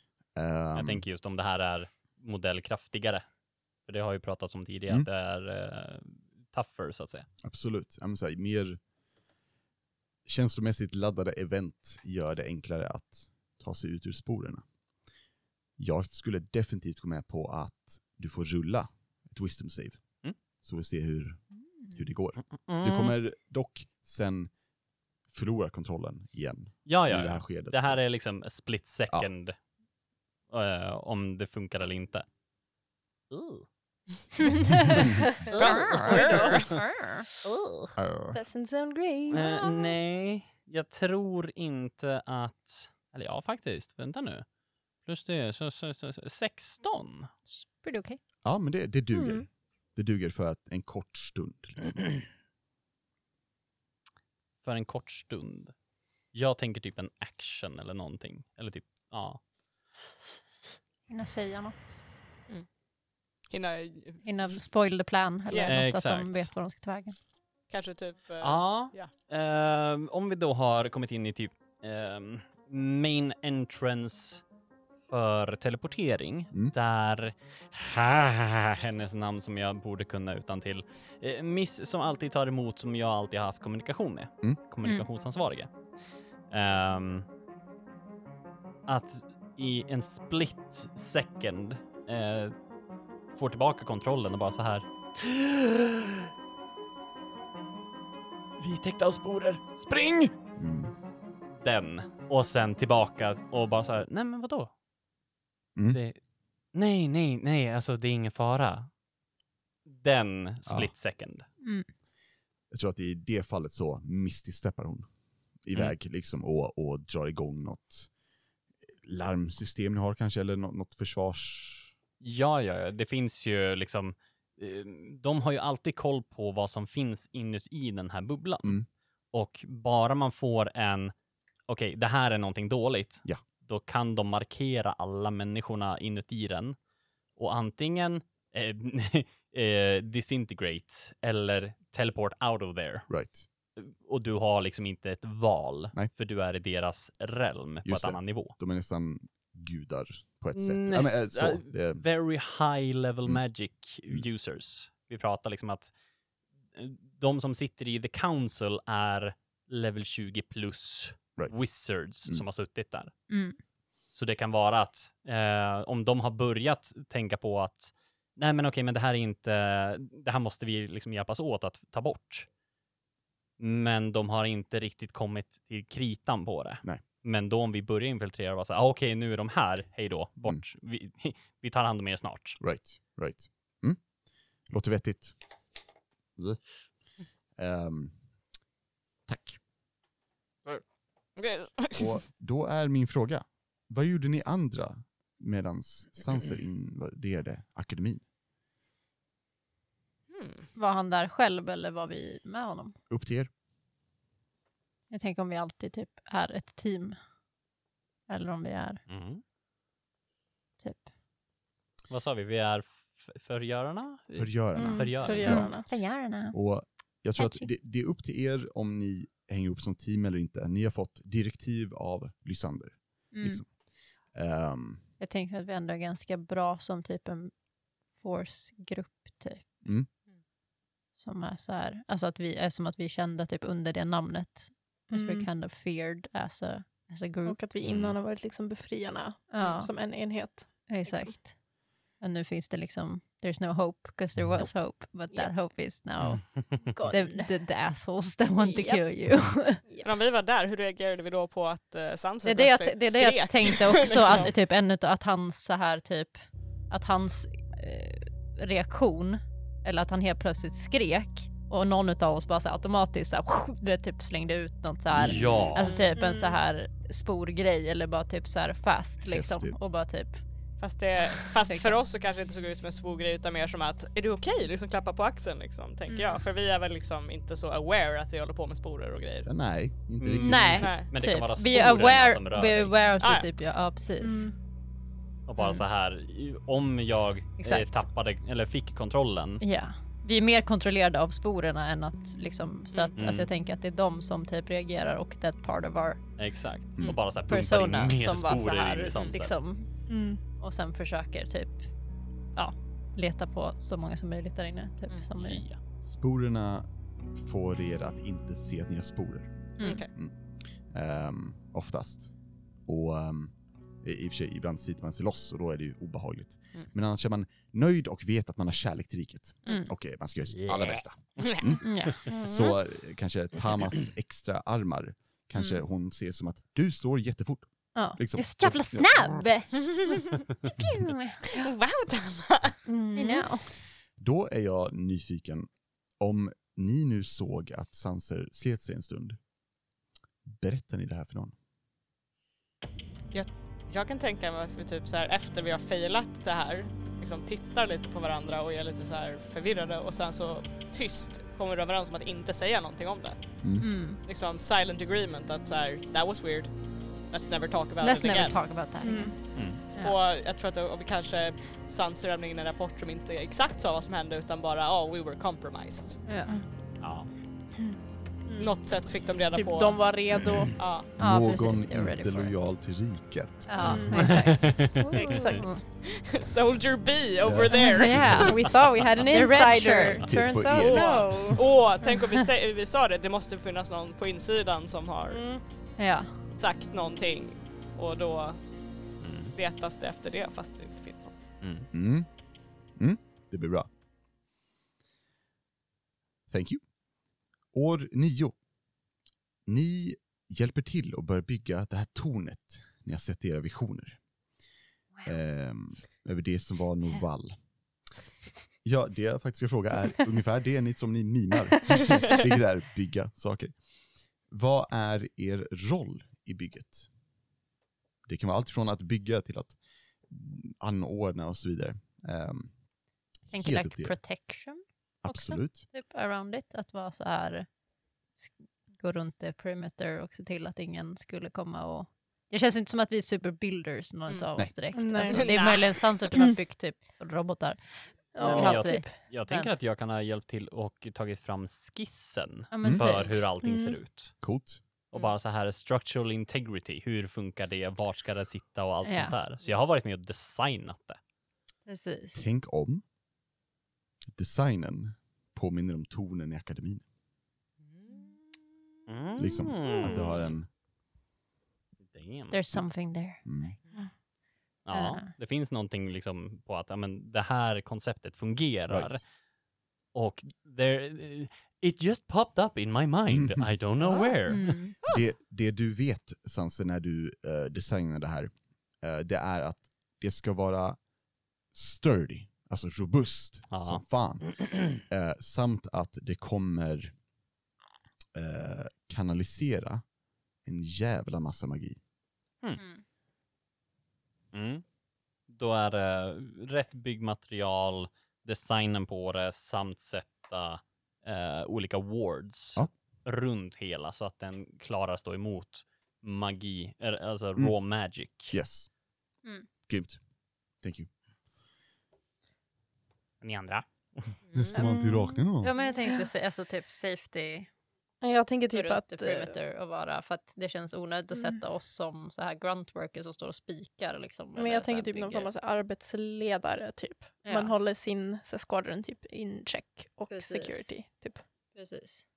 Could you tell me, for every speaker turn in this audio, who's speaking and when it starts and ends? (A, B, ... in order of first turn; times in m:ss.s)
0:00.4-0:01.0 A
0:00.8-0:03.2 B
0:03.9-0:07.3 B
0:07.4-0:08.8 A
0:10.2-0:14.6 A
0:15.8-0:24.5 A
0:22.6-0:23.2 B
0:25.3-0:28.0 A
0:26.9-0:29.6 B
0:30.5-0:32.3 B
0:33.3-0:33.7 B
0:35.5-0:36.8 C
0:35.5-0:36.6 B
0:35.6-0:37.3 D
0:38.0-0:38.4 A
0:38.3-0:39.7 E
0:39.3-0:44.4 B
0:39.4-0:39.8 D
0:45.0-0:47.3 B
0:47.5-0:48.2 D
0:48.4-0:52.1 A
0:49.1-0:49.4 E
0:54.6-0:55.7 B
0:56.3-0:59.4 B
1:01.1-1:01.9 D
1:03.5-1:04.2 C
1:04.2-1:07.2 D
1:05.5-1:05.8 C
1:05.6-1:06.5 B
1:07.7-1:09.1 C
1:08.4-1:14.4 B
1:15.1-1:25.7 B
1:26.5-1:27.2 B
1:28.9-1:32.5 B
1:33.3-1:36.3 B
1:38.6-1:40.3 B
1:40.6-1:40.9 A
1:41.6-1:44.7 B
1:45.9-1:46.2 B
1:46.7-1:48.9 B
1:49.9-1:51.5 B
1:50.7-1:50.9 A
1:51.6-1:51.9 D
1:52.7-1:55.1 A
1:55.6-1:58.1 A
1:59.0-2:01.9 A
2:02.2-2:11.1 B
2:11.7-2:16.8 B
2:17.4-2:23.1 B
2:23.1-2:23.5 A
2:23.8-2:28.6 B
2:27.8-2:32.0 A
2:30.5-2:35.9 B
2:36.8-2:43.1 B
2:41.4-2:41.6 A
2:43.3-2:43.6 D
2:44.1-2:52.5 B
2:53.6-3:02.6 B
3:02.6-3:04.0 A
3:04.7-3:05.4 A
3:06.4-3:06.6 A
3:07.6-3:08.2 A
3:09.3-3:09.6 A
3:11.4-3:12.2 C
3:12.0-3:18.2 A
3:20.3-3:20.7 C
3:20.8-3:23.0 D
3:23.1-3:23.5 A
3:25.1-3:27.2 D
3:28.3-3:29.0 D
3:29.1-3:29.4 B
3:30.8-3:31.1 D
3:32.1-3:35.7 B
3:34.3-3:35.7 A
3:34.8-3:35.9 E
3:35.4-3:36.6 D
3:36.5-3:45.0 A
3:37.4-3:37.7 D
3:43.3-3:43.6 D
3:45.2-3:47.5 D
3:48.2-3:49.8 D
3:51.2-3:57.6 D
3:55.1-3:55.5 E
3:57.5-4:01.3 E
3:57.9-3:58.2 B
3:59.5-3:59.9 D
4:00.9-4:01.6 D
4:02.2-4:09.8 D
4:06.9-4:07.5 E
4:08.6-4:09.0 E
4:09.9-4:10.1 E
4:10.0-4:14.5 C
4:12.4-4:30.4 D
4:25.2-4:25.9 B
4:25.2-4:25.6 A
4:25.8-4:26.2 C
4:26.2-4:26.6 E
4:29.3-4:29.9 A
4:30.8-4:39.5 C
4:31.7-4:32.0 D
4:39.5-4:40.9 A
4:40.2-4:43.0 B
4:40.4-4:44.5 D
4:40.8-4:41.1 C
4:43.2-4:43.5 C
4:44.2-4:44.5 E
4:45.5-4:49.6 B
4:45.6-4:45.8 D
4:47.6-4:48.1 D
4:49.6-4:56.2 D
4:53.2-4:53.5 B
4:56.4-4:59.5 B
4:57.5-4:59.9 D
5:00.1-5:00.4 E
5:00.6-5:01.9 D
5:02.6-5:05.6 D
5:05.4-5:05.8 B
5:06.0-5:10.4 A
5:09.8-5:10.0 D
5:09.8-5:10.1 C
5:10.9-5:12.3 A
5:12.9-5:29.5 A
5:20.6-5:21.0 B
5:21.4-5:21.8 C
5:21.8-5:22.2 D
5:22.3-5:22.8 E
5:28.0-5:30.1 D
5:29.8-5:30.4 C
5:30.6-5:31.4 D
5:31.5-5:32.8 C
5:32.9-5:33.6 E
5:33.2-5:33.6 D
5:34.2-5:35.7 A
5:36.2-5:39.4 A
5:40.4-5:41.5 A
5:43.3-5:53.6 C
5:53.6-5:53.9 A
5:53.8-5:54.2 D
5:54.1-5:56.8 C
5:57.3-5:58.6 C
5:58.0-6:00.2 D
5:59.0-5:59.4 E
5:59.5-5:59.8 B
5:59.9-6:06.2 C
6:06.3-6:06.5 D
6:07.0-6:07.3 B
6:07.8-6:08.8 E
6:08.6-6:10.2 C
6:09.5-6:10.8 E
6:10.8-6:11.1 C
6:11.2-6:14.3 A
6:11.2-6:12.6 D
6:13.7-6:15.8 D
6:13.8-6:15.8 E
6:14.1-6:15.5 B
6:16.0-6:18.5 C
6:17.4-6:18.4 A
6:17.9-6:18.8 D
6:18.4-6:21.7 E
6:19.3-6:20.6 D
6:20.2-6:21.6 A
6:20.8-6:25.4 C
6:25.3-6:25.6 E
6:26.0-6:26.3 D
6:26.5-6:28.6 C
6:29.2-6:29.6 B
6:29.6-6:31.4 C
6:31.6-6:31.9 B
6:31.9-6:32.3 A
6:33.0-6:33.9 A
6:36.5-6:36.8 A
6:37.7-6:38.6 A
6:39.7-6:44.2 A
6:45.2-6:47.6 A
6:48.8-6:53.8 A
6:52.0-6:52.4 C
6:54.5-6:57.1 A
6:58.3-6:59.8 A
7:00.3-7:02.7 A
7:03.5-7:04.2 A
7:03.5-7:07.7 D
7:05.2-7:05.8 A
7:08.4-7:19.7 D
7:14.9-7:15.4 E
7:15.3-7:16.1 C
7:18.3-7:19.2 E
7:18.4-7:24.4 B
7:22.7-7:23.4 D
7:22.8-7:23.2 A
7:23.6-7:24.0 E
7:24.4-7:24.8 A
7:25.1-7:31.2 B
7:29.0-7:29.4 D
7:31.9-7:32.4 D
7:32.4-7:33.0 A
7:34.3-7:37.0 A
7:37.9-7:38.6 C
7:39.1-7:40.4 B
7:39.4-7:40.7 A
7:42.1-7:42.6 B
7:42.5-7:43.4 D
7:43.4-7:43.7 A
7:44.9-7:49.2 B
7:44.9-7:45.3 D
7:48.9-7:49.2 A
7:50.1-7:54.8 B
7:53.3-7:53.7 A
7:54.5-7:55.0 D
7:55.1-8:01.0 A
8:01.7-8:07.1 A
8:03.7-8:05.0 B
8:08.4-8:10.0 A
8:10.6-8:12.0 A
8:12.8-8:13.0 D
8:14.5-8:14.8 B
8:15.5-8:28.6 B
8:28.5-8:28.9 A
8:29.9-8:30.2 A
8:30.8-8:31.1 A
8:33.4-8:34.4 B
8:34.5-8:34.8 C
8:34.5-8:35.7 A
8:34.8-8:35.4 E
8:35.6-8:37.7 D
8:38.2-8:39.6 E
8:38.7-8:45.5 D
8:44.6-8:51.4 E
8:47.4-8:47.8 D
8:50.3-8:50.9 D
8:51.7-8:52.2 D